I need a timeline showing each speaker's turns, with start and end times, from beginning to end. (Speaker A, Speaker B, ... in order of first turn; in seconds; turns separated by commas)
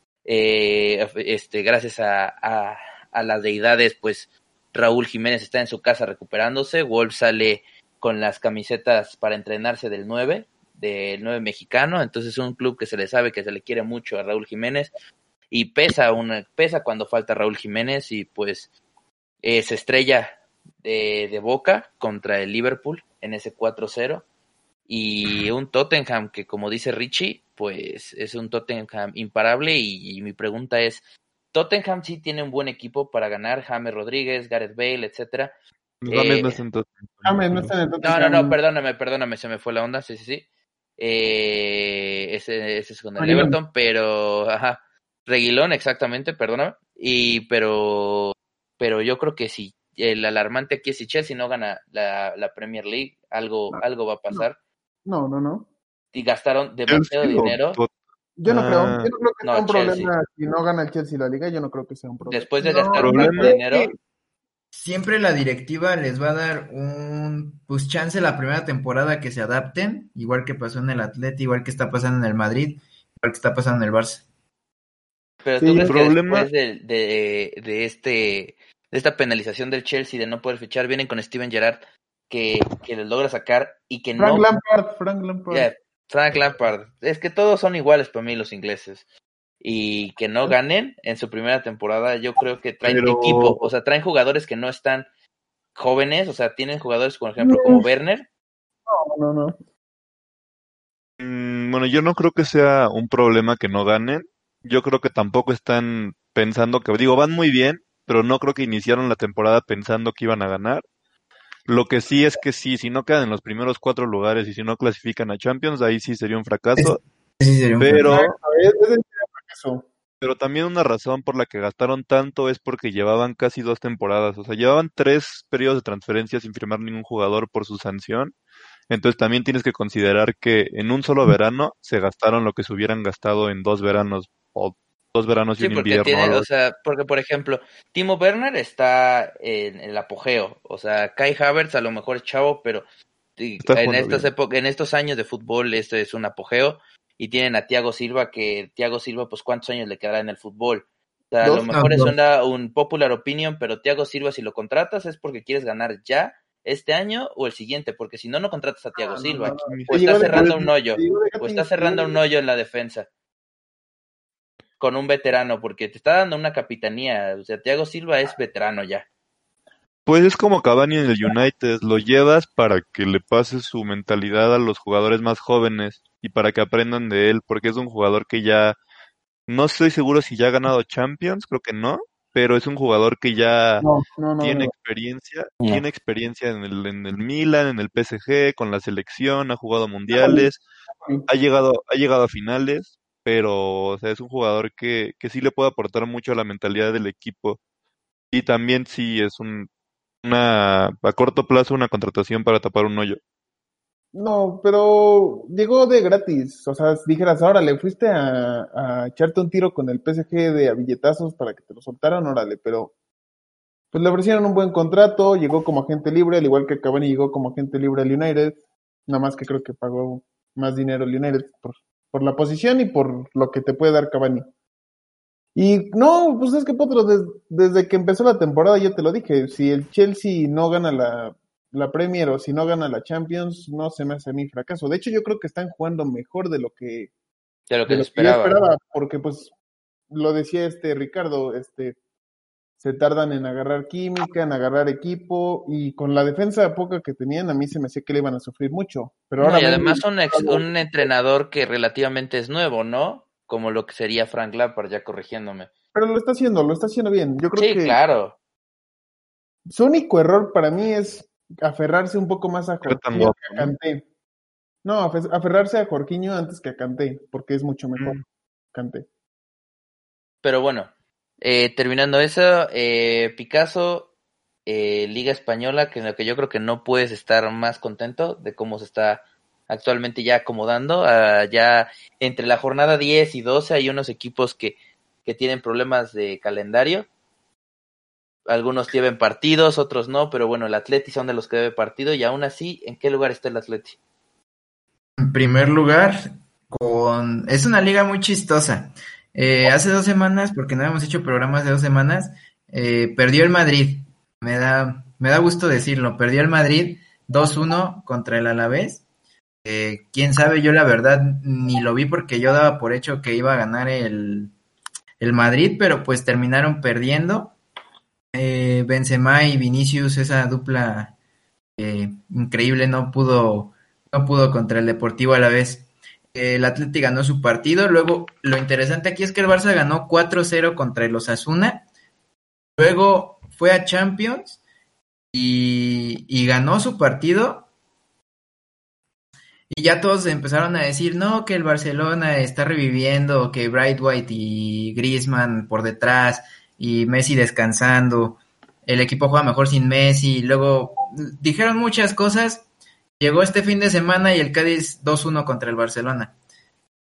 Speaker A: 0.2-14.9, Speaker A: 15.5-18.7, Speaker A: 19.4-24.2, Speaker A: 24.9-35.5, Speaker B: 36.0-37.7, Speaker A: 36.1-36.6, Speaker C: 37.2-38.6, Speaker A: 38.0-40.5, Speaker A: 41.0-54.6, Speaker C: 43.2-43.6, Speaker C: 53.7-54.5, Speaker C: 55.0-55.7, Speaker A: 56.1-57.8, Speaker B: 56.9-57.9, Speaker C: 58.4-63.8, Speaker B: 58.4-59.1, Speaker A: 59.4-60.1, Speaker A: 62.3-63.9, Speaker B: 62.9-63.6, Speaker D: 64.7-74.2, Speaker A: 75.4-84.5, Speaker C: 75.6-75.9, Speaker B: 75.8-76.5, Speaker C: 84.2-85.7, Speaker A: 85.5-89.0, Speaker A: 89.6-95.1, Speaker B: 92.8-93.7, Speaker A: 95.7-98.3, Speaker C: 97.4-97.8, Speaker C: 98.9-99.6, Speaker B: 101.2-110.8, Speaker B: 111.7-117.0, Speaker D: 117.4-118.1, Speaker B: 117.8-118.3, Speaker C: 118.0-119.8, Speaker B: 120.2-128.3, Speaker B: 128.9-136.4, Speaker A: 135.6-142.8, Speaker A: 143.4-163.1, Speaker B: 143.6-144.3, Speaker D: 151.5-152.1, Speaker C: 158.9-162.2, Speaker B: 159.5-160.5, Speaker A: 164.8-169.1, Speaker B: 170.1-178.8, Speaker B: 179.5-183.9, Speaker C: 183.8-184.7, Speaker B: 184.4-190.6, Speaker C: 190.1-190.5, Speaker B: 191.3-197.6, Speaker B: 198.3-199.7, Speaker B: 200.2-203.2, Speaker C: 204.1-212.9, Speaker C: 213.9-224.5, Speaker C: 225.5-237.1, Speaker A: 237.7-238.6, Speaker C: 237.9-239.5, Speaker C: 240.1-242.0, Speaker C: 242.8-251.1, Speaker A: 249.4-255.7, Speaker C: 255.9-258.0, Speaker A: 257.6-258.4, Speaker C: 259.7-264.0, Speaker B: 262.8-263.7, Speaker C: 264.8-269.0, Speaker B: 267.9-268.2, Speaker A: 270.4-270.9, Speaker A: 271.4-274.1, Speaker A: 274.6-287.1, Speaker A: 288.5-294.0, Speaker D: 295.2-309.0, Speaker D: 309.6-314.5, Speaker D: 315.2-317.6, Speaker D: 318.3-321.1, Speaker D: 321.8-331.8, Speaker D: 332.8-334.6, Speaker D: 335.3-337.7, Speaker D: 339.7-352.6, Speaker D: 353.2-356.3